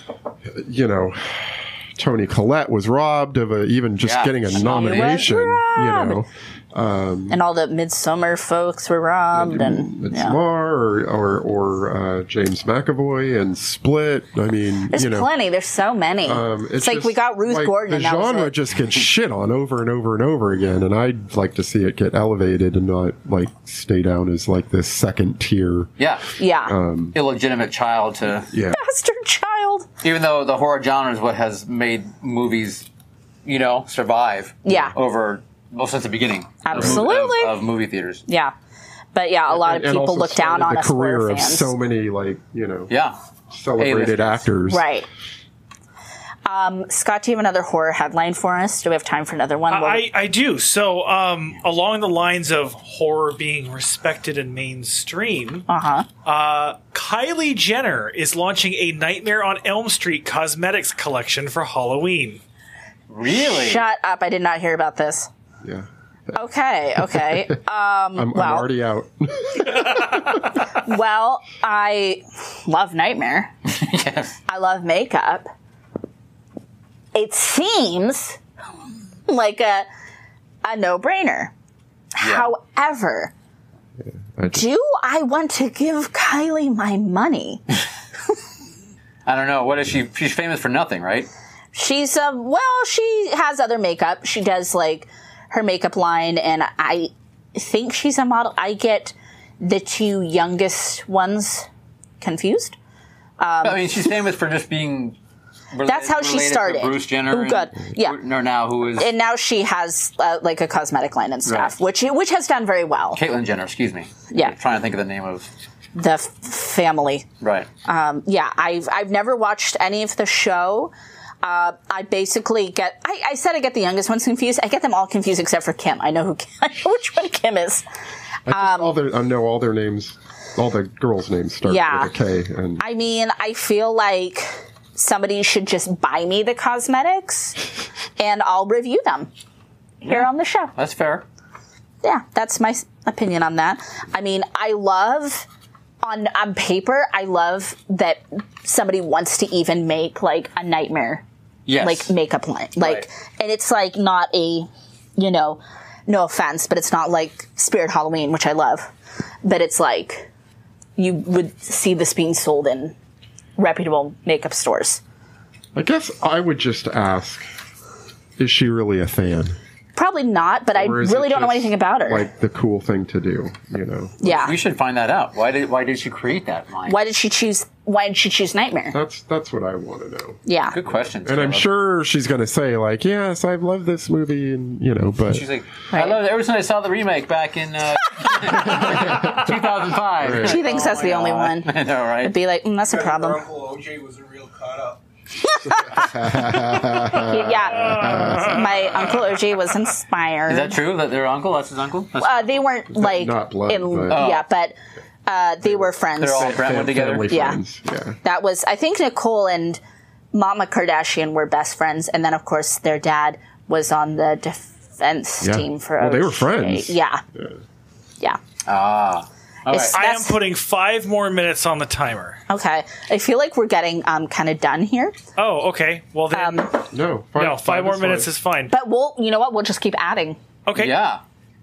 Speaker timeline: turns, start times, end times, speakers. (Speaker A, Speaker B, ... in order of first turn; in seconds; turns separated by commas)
Speaker A: 0.5-7.4, Speaker B: 4.0-5.3, Speaker C: 4.5-6.2, Speaker C: 7.3-10.4, Speaker A: 9.3-15.3, Speaker C: 14.9-18.5, Speaker A: 16.2-25.9, Speaker B: 26.0-26.3, Speaker C: 26.4-26.7, Speaker A: 26.7-27.2, Speaker B: 27.1-28.5, Speaker A: 28.5-28.8, Speaker C: 28.7-29.9, Speaker B: 30.0-32.9, Speaker B: 33.5-38.2, Speaker C: 34.6-34.9, Speaker C: 36.6-37.6, Speaker A: 36.7-37.0, Speaker C: 38.3-38.5, Speaker C: 39.1-41.7, Speaker A: 39.5-42.9, Speaker B: 42.9-43.2, Speaker A: 43.5-44.9, Speaker B: 43.8-44.5, Speaker C: 44.7-45.1, Speaker C: 46.5-50.1, Speaker D: 49.7-55.6, Speaker C: 55.7-56.1, Speaker D: 56.2-62.4, Speaker B: 63.1-63.8, Speaker C: 63.3-65.3, Speaker C: 66.4-68.7, Speaker A: 67.0-67.5, Speaker A: 68.2-70.2, Speaker C: 70.8-73.5, Speaker B: 73.7-74.3, Speaker C: 74.5-75.5, Speaker C: 77.2-78.4, Speaker C: 79.3-79.9, Speaker C: 80.6-81.5, Speaker C: 82.2-83.3, Speaker B: 82.2-82.5, Speaker A: 84.4-84.7, Speaker C: 84.5-87.6, Speaker B: 89.3-91.3, Speaker C: 91.7-101.7, Speaker C: 102.2-102.8, Speaker C: 103.4-104.1, Speaker B: 103.6-105.2, Speaker B: 105.7-109.1, Speaker C: 105.9-108.2, Speaker C: 109.0-113.2, Speaker B: 111.5-111.7, Speaker B: 113.2-115.5, Speaker C: 115.9-117.3, Speaker B: 117.4-117.7, Speaker C: 117.8-127.8, Speaker A: 128.5-132.8, Speaker C: 128.5-128.9, Speaker C: 131.7-132.1, Speaker C: 132.8-137.6, Speaker C: 138.2-139.3, Speaker C: 140.0-140.7, Speaker B: 140.1-141.2, Speaker C: 142.0-145.4, Speaker C: 146.0-151.2, Speaker B: 151.7-152.1, Speaker C: 151.8-158.9, Speaker B: 152.8-153.1, Speaker C: 159.4-160.3, Speaker C: 161.0-162.9, Speaker C: 163.6-165.0, Speaker A: 165.7-167.4, Speaker A: 168.4-169.6, Speaker C: 169.9-172.3, Speaker A: 170.7-174.3, Speaker C: 174.2-174.5, Speaker B: 174.3-177.0, Speaker C: 176.9-178.9, Speaker A: 178.9-180.4, Speaker C: 180.4-180.8, Speaker B: 180.7-181.7, Speaker A: 181.2-185.5, Speaker B: 185.3-192.3, Speaker C: 185.9-186.2, Speaker A: 188.7-189.4, Speaker A: 190.2-190.6, Speaker C: 190.4-193.4, Speaker E: 192.9-195.0, Speaker C: 195.5-196.1, Speaker A: 195.6-199.0, Speaker C: 196.7-200.8, Speaker D: 197.8-198.5, Speaker B: 200.5-202.6, Speaker C: 202.2-204.7, Speaker A: 202.9-204.2, Speaker B: 204.1-204.4, Speaker C: 205.3-206.6, Speaker A: 205.7-208.2, Speaker B: 206.2-207.3, Speaker C: 207.3-207.6, Speaker C: 208.2-209.8, Speaker C: 210.3-217.2, Speaker A: 215.4-217.6, Speaker B: 218.7-220.0, Speaker C: 219.7-220.4, Speaker D: 219.9-222.4, Speaker C: 222.5-225.2, Speaker D: 225.4-226.8, Speaker C: 226.3-226.7, Speaker A: 226.9-228.3, Speaker D: 227.4-228.7, Speaker C: 228.7-230.4, Speaker D: 230.7-231.0, Speaker B: 230.8-231.2